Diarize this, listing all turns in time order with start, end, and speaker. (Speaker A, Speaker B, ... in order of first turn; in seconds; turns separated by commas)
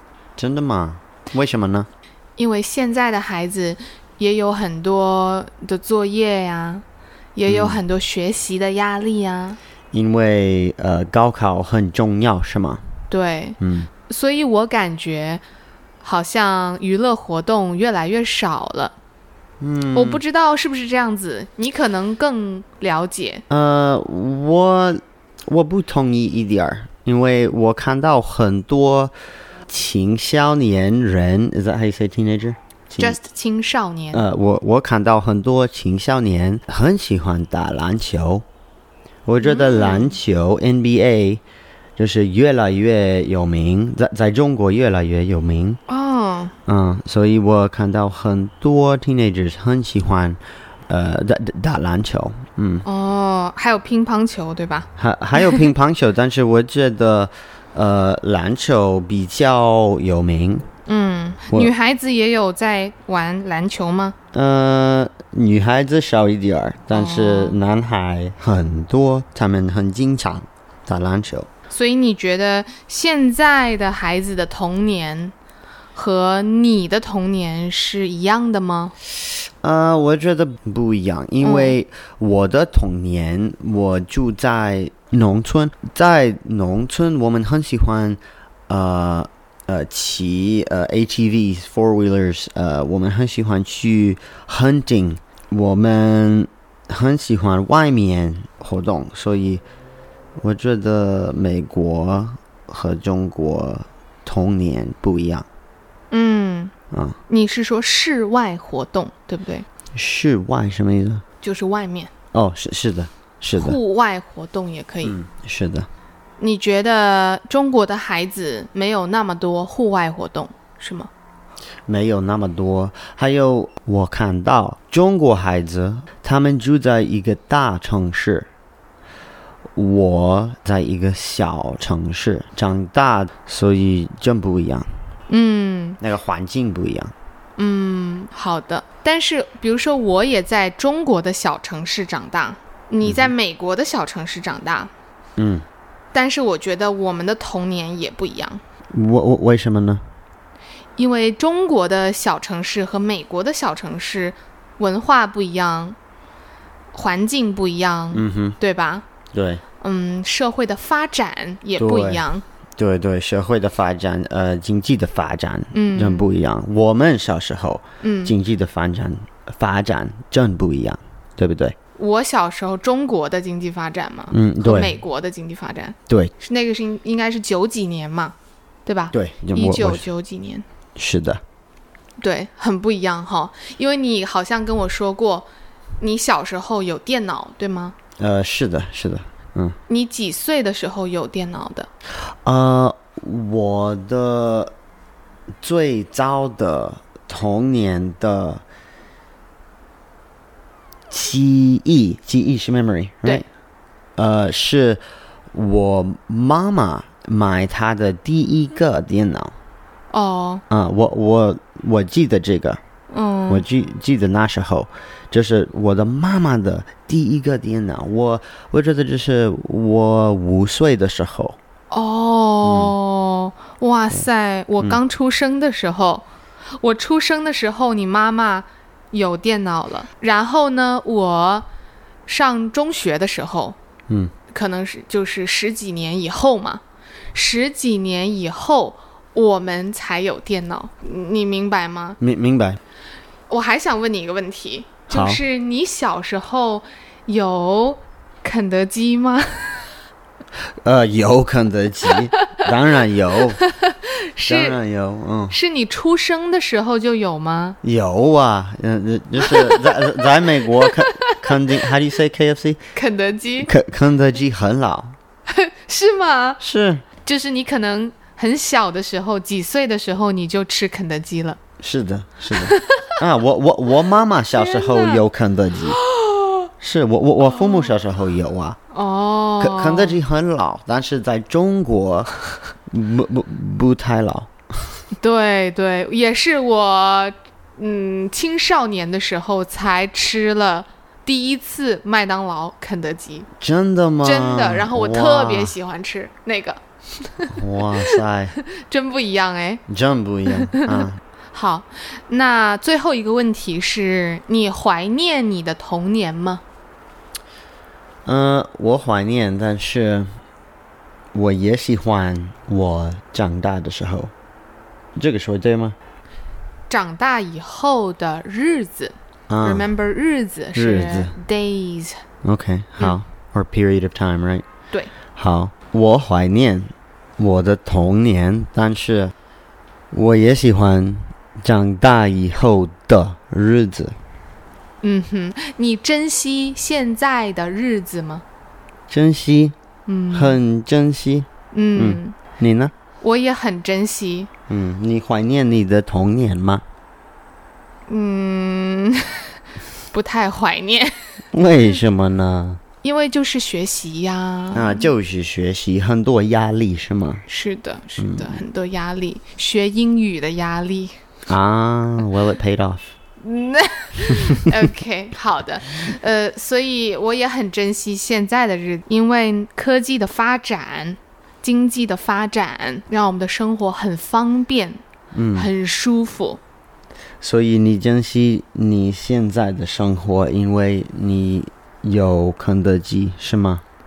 Speaker A: 0.4-1.9, Speaker B: 2.4-9.6, Speaker A: 7.5-7.8, Speaker A: 9.9-12.8, Speaker B: 13.1-15.4, Speaker A: 13.6-13.9, Speaker B: 16.0-19.0, Speaker A: 19.6-20.2, Speaker B: 19.9-23.4, Speaker A: 23.5-29.1, Speaker A: 29.7-33.2, Speaker B: 33.0-34.2, Speaker A: 34.1-38.5, Speaker A: 39.3-41.4, Speaker B: 39.4-40.2, Speaker A: 42.0-45.8, Speaker B: 45.9-46.5, Speaker A: 46.7-52.9, Speaker B: 52.9-55.7, Speaker A: 55.0-60.7, Speaker B: 60.9-64.2, Speaker A: 64.3-71.5, Speaker B: 66.9-67.6, Speaker B: 71.7-75.3, Speaker B: 76.0-79.0, Speaker A: 79.6-99.6, Speaker B: 81.4-81.8, Speaker A: 100.4-105.5, Speaker B: 106.1-106.7, Speaker A: 106.9-107.2, Speaker B: 107.3-109.7, Speaker A: 109.9-111.2, Speaker B: 111.4-112.1, Speaker A: 112.3-113.8, Speaker B: 113.6-115.2, Speaker A: 115.0-115.9, Speaker B: 116.4-121.1, Speaker A: 121.9-128.5, Speaker A: 129.8-134.9, Speaker B: 135.3-136.0, Speaker A: 136.0-137.1, Speaker B: 137.6-144.9, Speaker A: 143.0-143.3, Speaker A: 145.4-145.7, Speaker B: 146.1-148.6, Speaker A: 148.9-150.1, Speaker B: 151.0-156.0, Speaker B: 156.9-159.1, Speaker A: 158.1-158.6, Speaker A: 159.3-159.6, Speaker B: 159.8-162.4, Speaker A: 161.8-162.2, Speaker A: 162.8-171.8, Speaker B: 165.7-166.3, Speaker B: 168.0-168.3, Speaker B: 172.0-180.7, Speaker A: 174.3-175.0, Speaker A: 176.1-176.3, Speaker A: 179.1-180.1, Speaker A: 181.0-181.4, Speaker B: 182.2-185.5, Speaker B: 186.0-188.0, Speaker A: 188.2-189.8, Speaker B: 189.9-191.9, Speaker A: 192.2-194.7, Speaker A: 195.6-198.6, Speaker A: 201.1-203.5, Speaker A: 204.2-209.6, Speaker B: 210.1-210.6, Speaker A: 210.7-212.8, Speaker B: 213.1-213.6, Speaker A: 213.5-221.6, Speaker B: 221.9-226.2, Speaker A: 222.7-223.0, Speaker B: 226.8-231.7, Speaker B: 232.3-233.8, Speaker A: 234.1-234.3, Speaker B: 234.5-236.8, Speaker B: 237.3-242.2, Speaker A: 242.2-242.8, Speaker B: 243.5-249.9, Speaker A: 245.1-245.4, Speaker A: 250.8-253.6, Speaker B: 253.6-254.8, Speaker A: 254.4-255.6, Speaker B: 255.5-257.8, Speaker A: 257.8-262.8, Speaker B: 259.4-261.6, Speaker B: 262.9-263.7, Speaker A: 263.6-265.2, Speaker B: 265.5-266.6, Speaker A: 266.6-267.1, Speaker B: 267.2-271.6, Speaker A: 271.8-276.0, Speaker B: 272.5-273.2, Speaker B: 274.6-275.2, Speaker B: 275.9-276.7, Speaker A: 276.8-278.8, Speaker B: 278.9-280.2, Speaker A: 279.6-282.3, Speaker A: 282.9-285.0, Speaker B: 285.1-293.5, Speaker A: 293.6-295.8, Speaker B: 294.2-299.8, Speaker A: 297.5-298.6, Speaker A: 299.9-301.2, Speaker B: 300.5-306.6, Speaker A: 308.2-310.4, Speaker A: 311.3-314.3, Speaker A: 315.1-316.0, Speaker B: 316.9-322.2, Speaker A: 319.5-319.9, Speaker A: 320.7-321.4, Speaker A: 322.4-324.7, Speaker A: 325.3-329.3, Speaker A: 330.1-334.2, Speaker B: 335.0-338.4, Speaker A: 339.1-339.8, Speaker B: 340.1-340.6, Speaker A: 340.3-342.9, Speaker B: 341.7-342.4, Speaker B: 343.2-344.5, Speaker A: 344.7-346.9, Speaker B: 348.1-351.4, Speaker A: 351.5-352.8, Speaker B: 353.0-355.1, Speaker A: 354.7-357.4, Speaker B: 357.5-361.2, Speaker A: 358.2-358.6, Speaker A: 361.5-363.1, Speaker B: 363.4-375.0, Speaker A: 364.4-364.7, Speaker A: 375.3-375.7, Speaker B: 375.5-376.6, Speaker A: 377.4-383.8